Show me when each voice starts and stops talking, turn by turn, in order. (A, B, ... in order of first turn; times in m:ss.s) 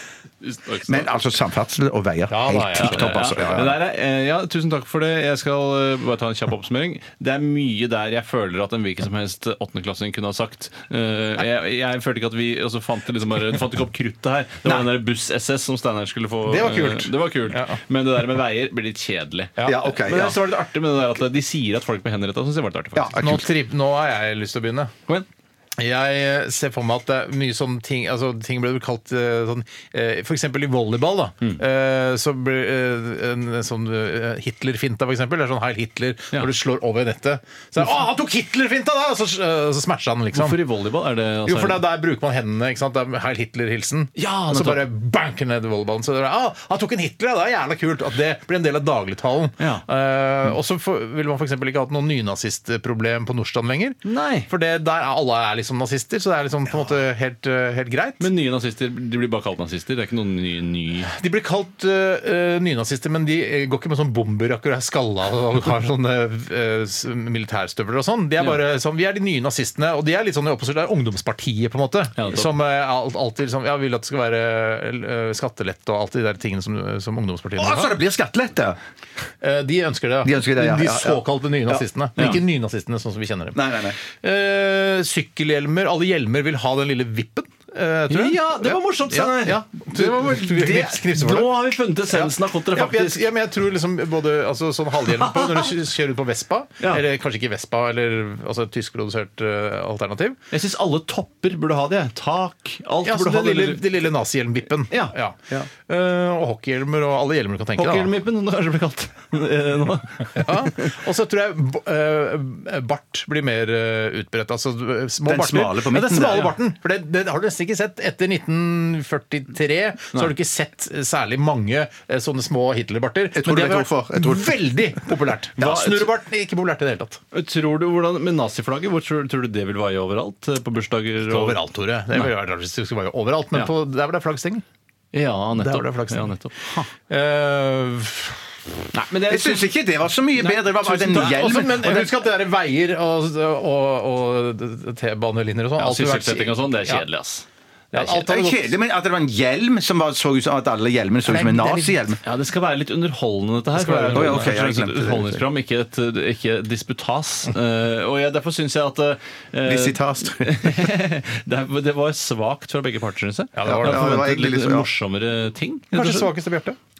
0:00.4-0:01.1 A
0:00.8-0:03.8 B
0:02.3-0:03.3 C
0:02.8-0:23.3 A
0:14.6-0:14.9 B
0:16.5-0:17.8 C
0:19.6-0:20.4 B
0:22.9-0:23.5 B
0:23.2-0:24.9 C
0:25.8-0:40.6 C
0:40.3-0:41.8 A
0:41.4-0:58.3 C
0:44.2-0:44.8 A
0:49.6-0:49.8 A
0:54.0-0:54.5 A
0:58.2-1:01.1 A
1:01.1-1:18.0 C
1:12.2-1:12.5 A
1:17.6-1:18.8 B
1:19.4-1:23.6 C
1:20.2-1:22.2 B
1:23.5-1:24.0 B
1:24.1-1:31.5 C
1:28.1-1:33.2 A
1:32.1-1:40.4 C
1:35.4-1:35.7 A
1:40.5-1:43.9 A
1:43.0-1:48.1 C
1:44.9-1:45.7 A
1:47.8-1:51.0 A
1:50.4-2:07.2 C
1:55.2-1:56.5 B
2:03.3-2:04.6 B
2:05.6-2:06.0 B
2:07.3-2:11.6 A
2:11.2-2:14.6 C
2:15.1-2:16.9 A
2:15.6-2:16.3 C
2:17.0-2:18.5 C
2:18.9-2:19.7 A
2:19.3-2:22.2 B
2:20.4-2:27.0 C
2:25.8-2:27.4 A
2:27.9-2:28.7 C
2:27.9-2:32.2 B
2:31.2-2:32.0 C
2:32.2-2:46.3 A
2:33.8-2:34.5 C
2:34.1-2:35.5 B
2:39.6-2:40.8 B
2:43.6-2:44.1 C
2:43.6-2:44.9 B
2:45.9-2:46.8 C